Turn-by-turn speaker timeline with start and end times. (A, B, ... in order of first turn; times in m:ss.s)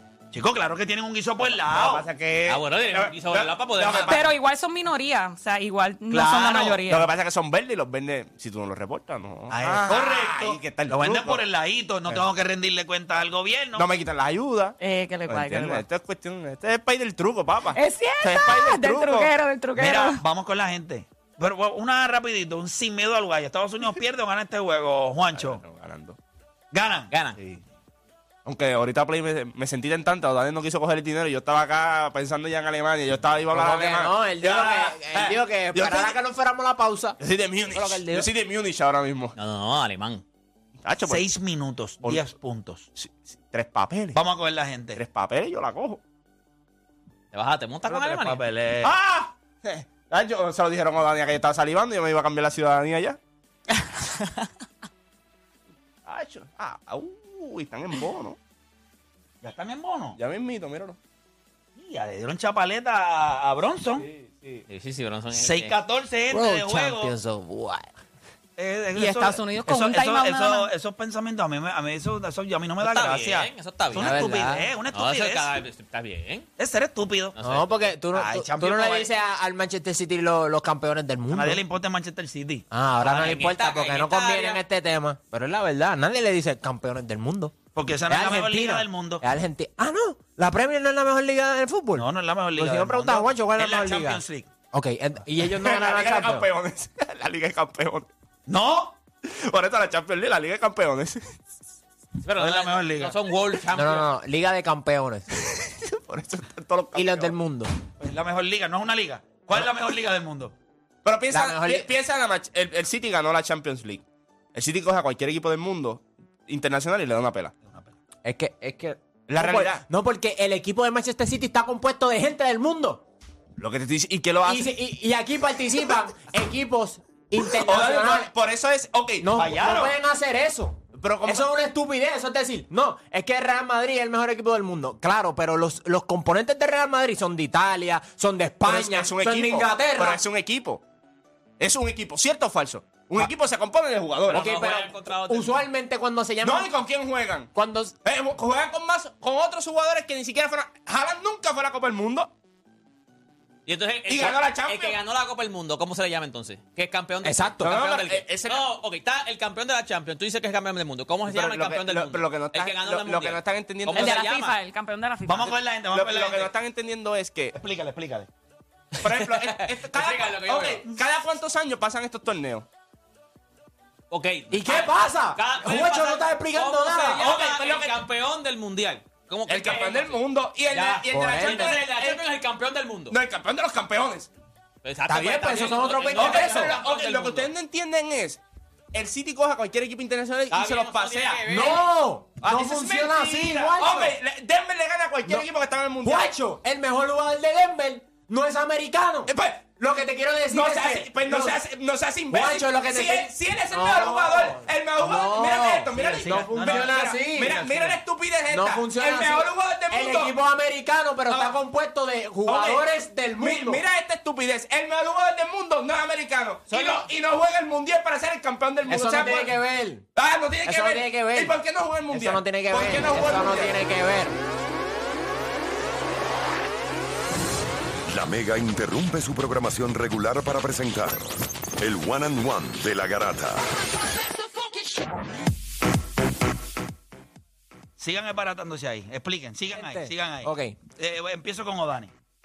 0:00.3-0:02.1 A
0:01.6-0:04.3 B
0:02.5-0:04.2 C
0:04.1-0:07.1 D
0:06.1-0:06.7 A
0:06.2-0:11.4 B
0:09.5-0:13.9 A
0:13.8-0:14.8 B
0:14.8-0:15.8 D
0:15.3-0:19.3 B
0:17.7-0:20.2 D
0:19.8-0:25.6 A
0:25.4-0:26.2 B
0:26.7-0:27.1 A
0:27.1-0:27.4 C
0:28.4-0:34.9 B
0:33.5-0:37.2 E
0:34.5-0:35.3 A
0:35.7-0:36.2 B
0:37.2-0:39.4 B
0:37.7-0:38.3 E
0:39.4-0:40.2 C
0:40.8-0:41.2 B
0:41.1-0:42.9 A
0:43.0-0:44.2 B
0:44.1-0:45.0 A
0:45.0-0:46.0 B
0:47.3-0:48.4 C
0:47.9-0:48.9 A
0:48.8-0:53.2 B
0:56.1-0:58.4 B
0:59.4-1:00.2 A
1:00.2-1:01.0 B
1:01.8-1:04.1 A
1:04.0-1:04.7 B
1:04.7-1:05.8 C
1:05.3-1:07.1 A
1:06.3-1:07.9 E
1:08.6-1:15.6 A
1:09.0-1:10.7 D
1:12.8-1:14.3 C
1:14.0-1:14.7 E
1:14.9-1:16.5 C
1:16.6-1:17.4 A
1:17.4-1:17.9 C
1:17.4-1:21.6 E
1:18.1-1:19.1 A
1:21.3-1:22.7 A
1:22.7-1:27.6 E
1:23.0-1:24.6 C
1:27.8-1:29.2 A
1:28.1-1:36.5 E
1:32.0-1:34.5 A
1:35.4-1:38.1 B
1:38.5-1:39.0 A
1:39.2-1:41.4 B
1:42.2-1:44.1 C
1:42.4-1:43.2 A
1:43.7-1:45.3 E
1:45.4-1:47.4 B
1:47.0-1:47.8 E
1:48.0-1:50.6 A
1:51.0-1:57.5 B
1:51.3-1:51.9 E
1:57.7-1:57.9 A
1:58.2-2:03.0 E
1:59.3-1:59.8 B
2:03.6-2:04.8 B
2:04.5-2:08.3 E
2:07.4-2:09.3 B
2:09.2-2:20.2 E
2:09.4-2:09.9 A
2:10.9-2:11.5 B
2:18.6-2:20.8 B
2:21.6-2:24.4 B
2:24.3-2:25.6 C
2:24.3-2:26.7 E
2:26.4-2:27.5 B
2:27.5-2:28.0 E
2:28.0-2:32.3 B
2:33.7-2:44.6 C
2:34.1-2:35.0 B
2:37.2-2:37.7 E
2:37.6-2:38.7 B
2:41.2-2:44.3 B
2:43.9-2:45.6 D
2:45.3-2:46.5 A
2:45.9-2:47.6 B
2:47.6-2:48.3 A
2:49.0-2:52.7 B
2:49.1-2:50.9 C
2:54.1-3:03.2 C
2:54.5-2:57.2 E
2:57.2-2:58.0 B
2:59.5-3:02.3 B
3:01.1-3:01.8 E
3:03.1-3:04.3 B
3:04.8-3:07.5 C
3:05.1-3:06.8 E
3:06.0-3:08.4 B
3:08.9-3:11.4 B
3:10.5-3:11.9 C
3:11.5-3:14.2 E
3:12.4-3:16.3 B
3:16.0-3:21.6 E
3:19.3-3:19.7 B
3:20.5-3:30.4 B
3:22.3-3:33.8 E
3:26.0-3:26.9 A
3:31.3-3:31.6 B
3:32.5-3:32.9 B
3:33.4-3:39.5 B
3:36.7-3:37.0 E
3:38.9-3:40.1 E
3:40.2-3:43.8 B
3:40.6-3:41.6 E
3:42.1-3:44.4 E
3:48.1-3:53.7 F
3:58.0-4:02.1 A
3:59.7-4:00.8 E